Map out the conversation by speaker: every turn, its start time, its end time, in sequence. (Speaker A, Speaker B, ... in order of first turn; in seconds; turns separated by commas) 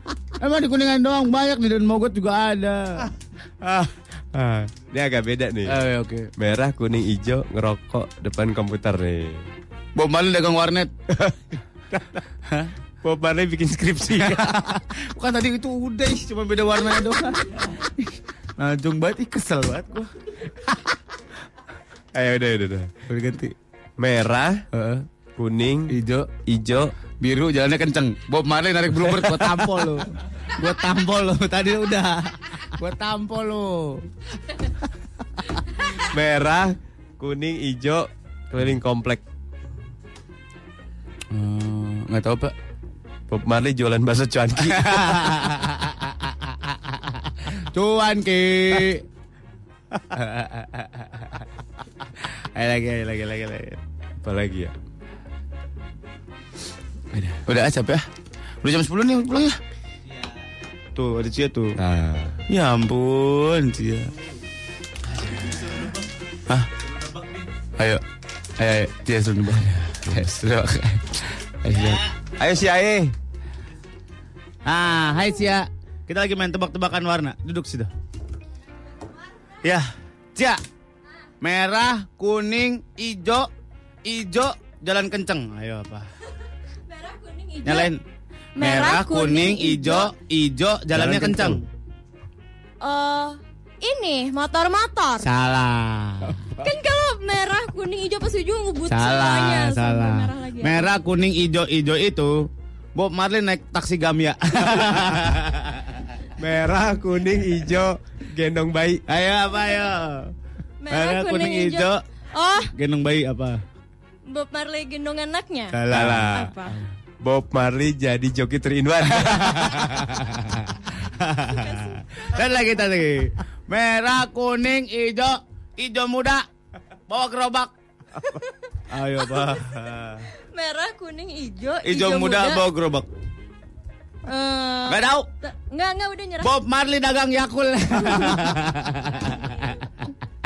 Speaker A: 0.4-3.1, Speaker B: 3.6-9.5, Speaker A: 5.7-6.3, Speaker A: 9.9-10.9, Speaker B: 11.1-12.2, Speaker B: 13.0-14.7, Speaker A: 14.1-20.1, Speaker B: 22.1-22.9, Speaker A: 23.1-23.5, Speaker B: 24.0-24.6, Speaker A: 24.7-25.1, Speaker B: 25.4-26.9, Speaker A: 25.9-26.3, Speaker A: 27.2-34.1, Speaker B: 35.9-39.2, Speaker A: 41.3-42.5, Speaker B: 43.3-45.3, Speaker A: 44.6-49.0, Speaker A: 50.1-51.3, Speaker A: 52.2-53.8, Speaker B: 54.2-54.7, Speaker A: 57.2-58.0, Speaker A: 58.6-59.6, Speaker A: 61.0-61.8, Speaker B: 61.8-62.4, Speaker A: 62.5-64.1, Speaker B: 65.1-65.8, Speaker A: 67.8-68.0, Speaker A: 68.6-72.0, Speaker B: 70.1-70.3, Speaker B: 71.7-73.1, Speaker A: 74.6-77.9, Speaker A: 79.6-80.6, Speaker A: 81.4-83.5, Speaker A: 84.0-86.1, Speaker C: 86.9-87.9, Speaker A: 87.6-88.0, Speaker C: 88.6-90.1, Speaker A: 88.6-91.6, Speaker B: 90.9-91.6, Speaker C: 92.8-95.3, Speaker A: 95.2-96.5, Speaker C: 96.6-100.9, Speaker A: 98.8-105.8, Speaker B: 106.4-109.0, Speaker A: 109.1-110.3, Speaker C: 110.8-112.7, Speaker A: 110.9-112.0, Speaker A: 112.7-113.6, Speaker C: 114.3-116.8, Speaker A: 115.7-116.8, Speaker B: 115.9-116.5, Speaker B: 117.2-120.2, Speaker A: 119.1-126.5, Speaker C: 121.5-122.0, Speaker A: 127.1-127.7, Speaker A: 128.9-129.9, Speaker B: 129.6-130.2, Speaker C: 130.3-132.7, Speaker A: 131.8-133.1, Speaker C: 134.3-136.6, Speaker A: 134.9-135.2, Speaker A: 136.4-140.1